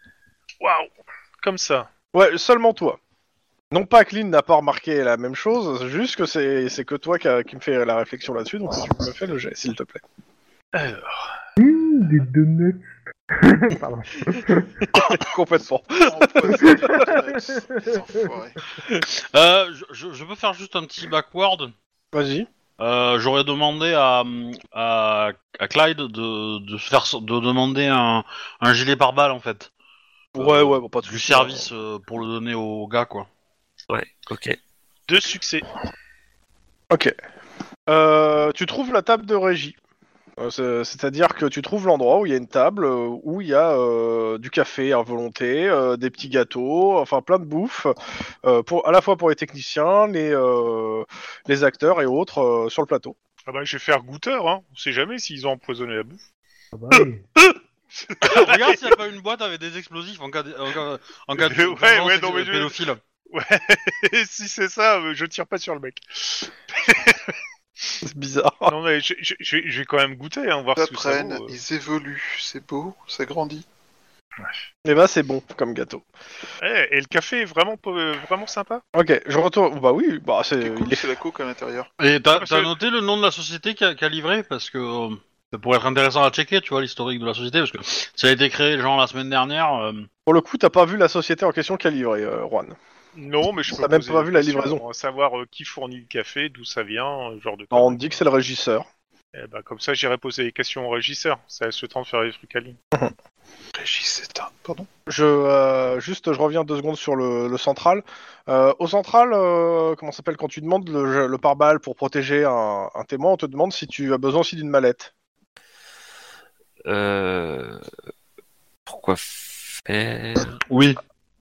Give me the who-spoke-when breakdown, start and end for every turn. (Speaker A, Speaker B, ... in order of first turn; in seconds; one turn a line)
Speaker A: 0.6-1.9
Speaker B: 2.1-3.0
Speaker B: 3.7-10.0
Speaker A: 10.7-11.3
Speaker C: 11.6-14.8
Speaker B: 14.9-17.2
Speaker D: 15.9-18.6
Speaker E: 19.1-21.7
Speaker B: 22.1-22.5
Speaker E: 22.8-29.7
Speaker B: 30.3-31.7
Speaker E: 30.4-33.3
Speaker F: 33.9-34.6
Speaker A: 35.1-35.7
Speaker B: 37.9-39.8
Speaker B: 40.4-53.1
Speaker A: 53.5-56.2
Speaker C: 56.7-57.2
Speaker A: 58.1-58.7
Speaker E: 58.2-63.0
Speaker A: 61.4-62.8
Speaker A: 63.3-67.3
Speaker B: 68.0-68.7
Speaker A: 68.7-71.5
Speaker D: 70.8-73.6
Speaker B: 74.8-76.0
Speaker A: 76.6-78.8
Speaker B: 78.9-81.1
Speaker D: 80.6-81.9
Speaker E: 82.0-90.1
Speaker A: 82.3-82.7
Speaker B: 90.2-92.8
Speaker A: 93.1-98.2
Speaker B: 93.8-94.8
Speaker B: 97.7-98.8
Speaker A: 99.3-102.8
Speaker D: 103.8-104.9
Speaker B: 105.1-115.1
Speaker F: 116.8-117.8
Speaker F: 118.9-120.6
Speaker E: 120.7-121.0